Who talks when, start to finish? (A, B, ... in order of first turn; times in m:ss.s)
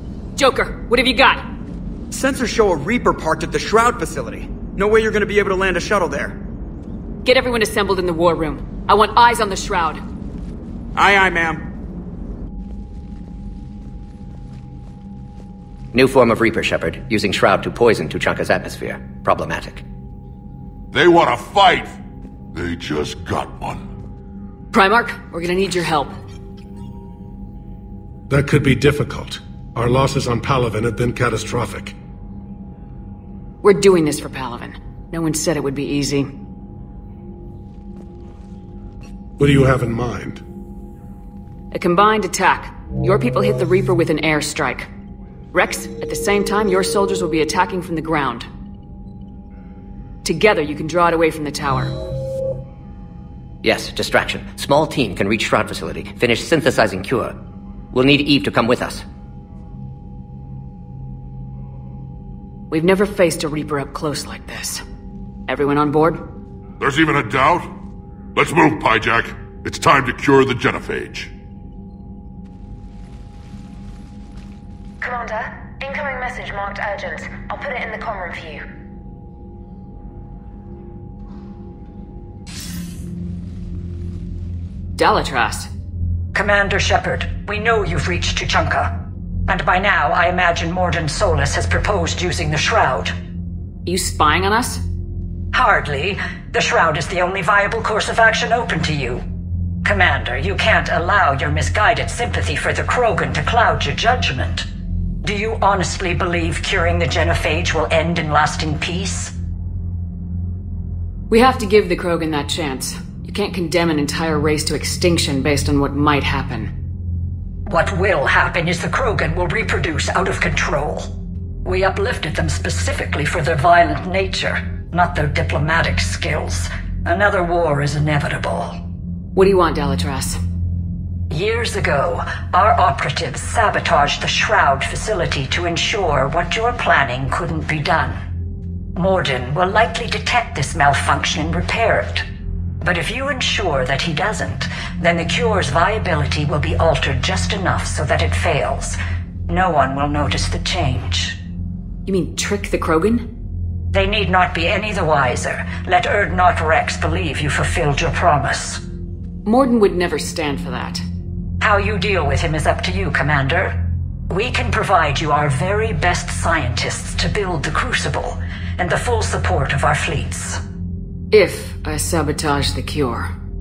0:00.4-0:01.4 A
0:02.1-0:06.4 B
0:07.2-0:10.0 A
0:11.0-0:11.7 B
0:15.9-0:19.8 C
0:20.9-0:22.0 D
0:22.5-0:23.9 D
0:24.7-0:26.2 A
0:28.3-0:32.0 E
0:33.6-0:36.3 A
0:39.4-0:40.4 E
0:41.7-0:44.9 A
0:45.5-0:48.5 A
0:50.2-0:51.9 A
0:53.6-0:57.4 C
0:57.9-0:59.0 C
1:02.7-1:04.8 A
1:05.5-1:06.2 A
1:06.8-1:07.8 D
1:08.4-1:11.3 D
1:15.0-1:18.6 F
1:25.0-1:25.7 A
1:26.3-1:29.0 G
1:29.5-1:33.2 G
1:33.9-1:34.8 A
1:35.5-1:39.2 G
1:39.8-1:44.7 G
1:45.2-1:49.3 G
1:51.3-1:56.7 A
1:57.7-2:01.1 G
2:01.6-2:08.8 G
2:09.4-2:10.4 A
2:11.3-2:18.2 G
2:19.0-2:22.3 G
2:22.8-2:31.4 G
2:32.1-2:33.3 A
2:33.9-2:38.8 G
2:39.4-2:41.0 A
2:41.6-2:50.6 G
2:51.3-2:53.3 A